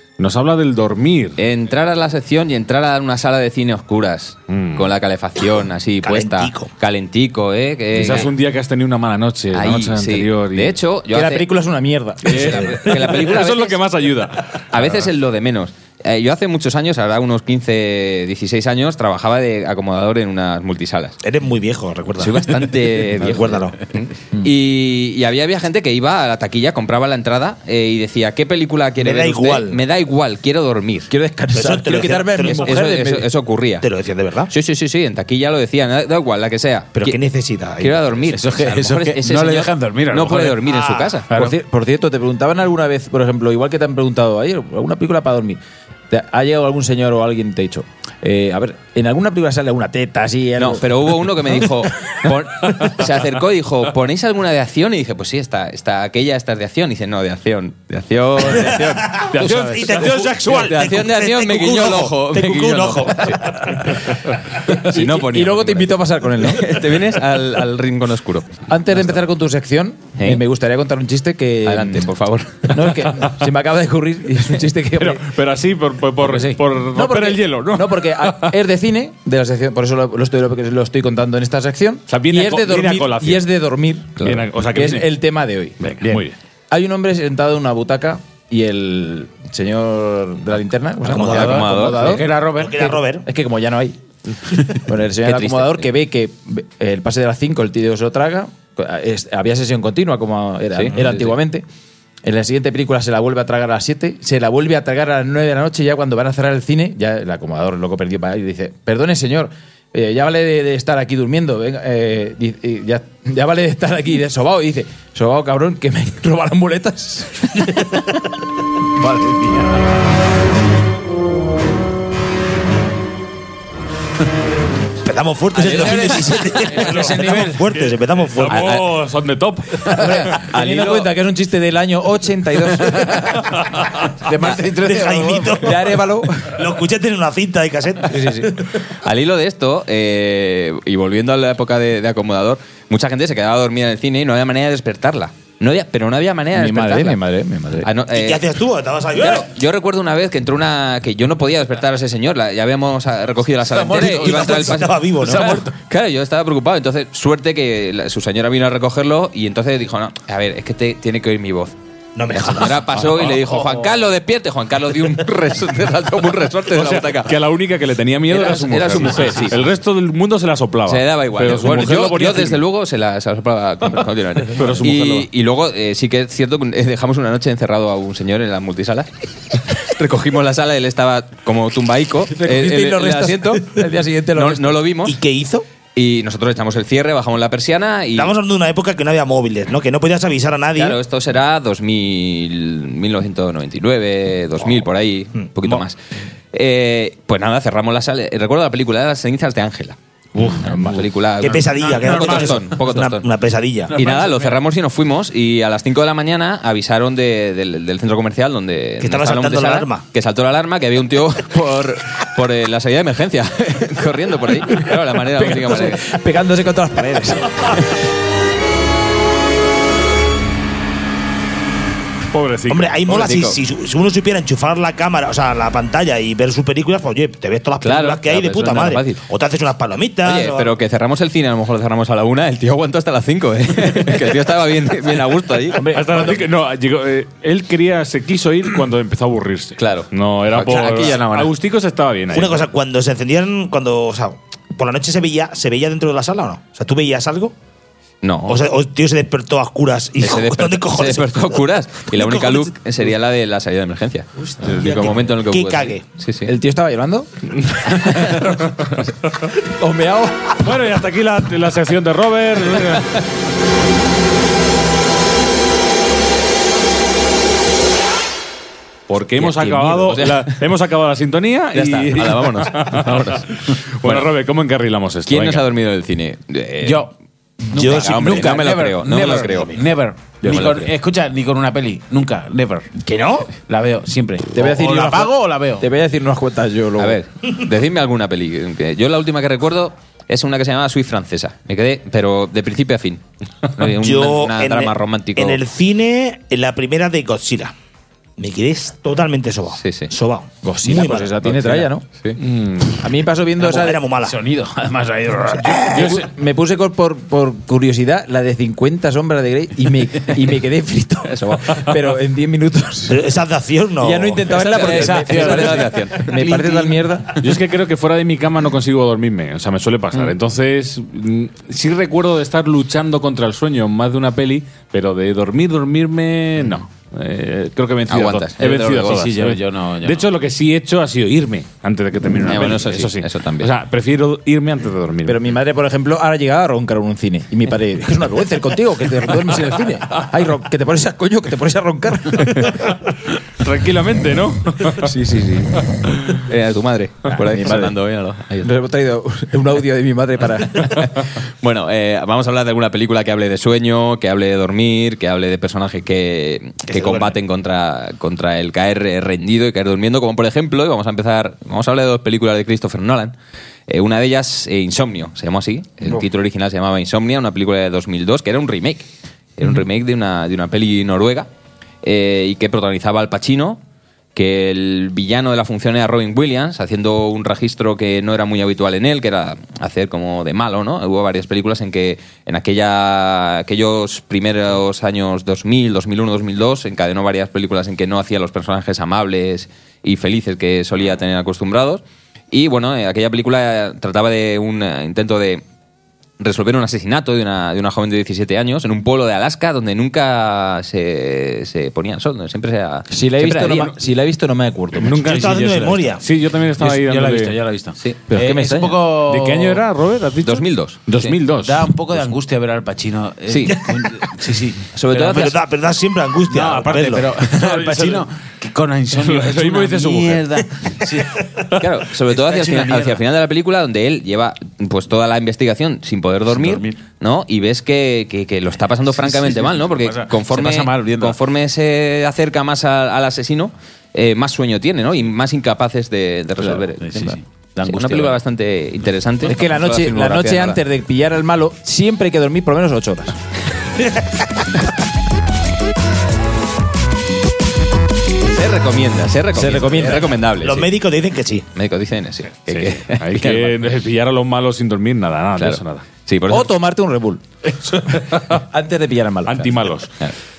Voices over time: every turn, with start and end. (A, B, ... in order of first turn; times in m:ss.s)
0:00.2-0:01.4 A
0:01.4-0:08.3 B
0:04.5-0:04.9 A
0:06.0-0:06.7 C
0:07.9-0:10.8 A
0:09.5-0:11.5 B
0:11.1-0:12.8 D
0:12.2-0:13.8 B
0:12.3-0:15.0 A
0:14.7-0:21.2 B
0:21.2-0:23.8 C
0:22.2-0:31.1 B
0:29.0-0:29.8 C
0:31.1-0:33.3 D
0:31.5-0:33.0 C
0:32.4-0:33.8 B
0:33.8-0:34.5 C
0:34.5-0:37.2 B
0:36.9-0:38.3 C
0:37.8-0:41.3 B
0:38.3-0:40.7 E
0:40.7-0:41.1 C
0:41.3-0:51.7 D
0:50.6-0:59.3 B
0:58.5-1:03.9 C
0:59.3-1:00.7 A
1:00.4-1:03.4 B
1:04.8-1:08.5 B
1:04.8-1:06.6 D
1:08.7-1:12.1 D
1:11.6-1:12.8 B
1:12.7-1:15.2 D
1:15.0-1:18.6 A
1:16.3-1:16.5 E
1:16.9-1:25.8 D
1:22.1-1:23.4 A
1:24.2-1:25.1 A
1:25.8-1:26.4 A
1:26.7-1:32.3 D
1:31.1-1:31.5 C
1:31.1-1:33.0 E
1:31.2-1:32.2 B
1:32.5-1:33.2 C
1:33.2-1:34.0 D
1:34.7-1:41.6 D
1:35.2-1:35.9 B
1:40.7-1:41.4 B
1:42.2-1:58.0 D
1:59.0-1:59.9 E
2:05.0-2:08.8 C
2:05.6-2:07.6 E
2:06.8-2:10.4 A
2:08.5-2:08.8 B
2:09.9-2:13.5 D
2:10.5-2:11.1 B
2:14.2-2:15.5 E
2:14.7-2:15.8 C
2:15.5-2:16.6 D
2:16.5-2:18.5 C
2:18.1-2:18.6 D
2:19.0-2:27.2 B
2:26.5-2:27.9 D
2:27.8-2:28.4 B
2:28.1-2:29.5 C
2:29.1-2:41.7 B
2:33.7-2:34.8 E
2:33.9-2:35.7 C
2:42.2-2:43.0 C
2:42.3-2:47.3 B
2:43.3-2:43.8 E
2:46.7-2:52.6 A
2:48.3-2:49.6 B
2:50.9-2:59.1 B
2:54.6-2:55.3 A
2:59.8-3:03.8 B
3:02.3-3:04.9 D
3:04.3-3:05.2 B
3:05.0-3:05.6 C
3:05.9-3:08.3 B
3:08.1-3:11.0 C
3:10.8-3:16.0 B
3:15.4-3:15.8 C
3:16.5-3:20.0 B
3:20.4-3:20.8 E
3:20.6-3:23.3 B
3:21.4-3:23.9 C
3:21.8-3:22.5 E
3:23.9-3:24.6 E
3:23.9-3:36.0 B
3:29.0-3:30.0 C
3:35.3-3:38.0 D
3:42.3-3:43.0 A
3:42.7-3:50.7 C
3:43.1-3:43.6 B
3:47.8-3:49.2 B
3:50.2-3:55.8 B
3:55.7-3:56.4 D
3:55.9-4:02.6 A
3:59.8-4:01.5 B
4:02.3-4:07.5 C
4:08.2-4:08.6 B
4:08.5-4:11.6 C
4:10.2-4:16.5 B
4:12.1-4:12.7 C
4:14.7-4:16.0 C
4:16.4-4:18.5 D
4:19.6-4:20.6 D
4:20.6-4:23.2 A
4:29.1-4:35.6 A
4:29.4-4:30.6 B
4:31.7-4:33.5 B
4:35.3-4:37.0 B
4:36.8-4:37.1 E
4:37.7-4:42.9 E
4:37.7-4:39.8 B
4:37.8-4:38.6 C
4:40.4-4:40.9 B
4:43.0-4:43.5 C
4:43.6-4:45.8 E
4:44.5-4:47.2 D
4:47.0-4:55.6 B
4:53.9-4:57.7 C
4:58.4-5:01.4 C
4:59.8-5:00.1 B
5:00.6-5:02.0 D
5:01.5-5:02.4 B
5:02.4-5:03.0 A
5:03.0-5:04.0 D
5:03.6-5:04.4 C
5:04.2-5:06.2 E
5:05.7-5:13.3 D
5:11.2-5:11.8 B
5:13.1-5:14.4 C
5:14.0-5:17.4 D
5:14.5-5:16.8 B
5:14.9-5:15.9 E
5:16.4-5:17.0 E
5:17.4-5:35.4 A
5:28.1-5:29.3 B
5:29.0-5:30.3 E
5:32.4-5:33.7 B
5:35.2-5:42.8 D
5:42.5-5:43.0 A
5:43.6-5:45.1 A
5:44.9-5:45.8 D
5:46.4-5:48.7 B
5:47.3-5:47.9 D
5:48.6-5:51.1 D
5:51.6-6:03.3 B
5:56.9-5:57.4 C
6:03.9-6:11.5 B
6:12.0-6:13.8 B
6:14.3-6:35.6 B
6:36.4-6:43.9 B
6:43.1-6:45.3 D
6:44.9-6:47.6 A
6:45.2-6:46.2 C
6:45.2-6:46.0 E
6:46.8-6:49.8 E
6:48.3-6:49.0 D
6:49.2-6:51.8 A
6:50.4-6:51.4 B
6:51.6-6:55.5 E
6:53.5-6:53.8 B
6:54.9-6:55.6 B
6:55.2-6:57.3 C
6:56.5-7:01.4 E
6:57.5-6:58.2 A
6:59.1-7:00.5 A
7:01.8-7:20.8 B
7:02.2-7:03.2 E
7:06.5-7:07.0 E
7:09.1-7:11.4 E
7:16.6-7:18.4 E
7:19.4-7:23.4 D
7:24.0-7:24.3 C
7:28.5-7:30.9 B
7:29.5-7:30.3 D
7:30.6-7:31.6 C
7:31.7-7:33.5 B
7:32.7-7:36.0 A
7:35.6-7:36.7 B
7:36.5-7:37.4 D
7:38.5-7:39.8 D
7:39.4-7:40.1 A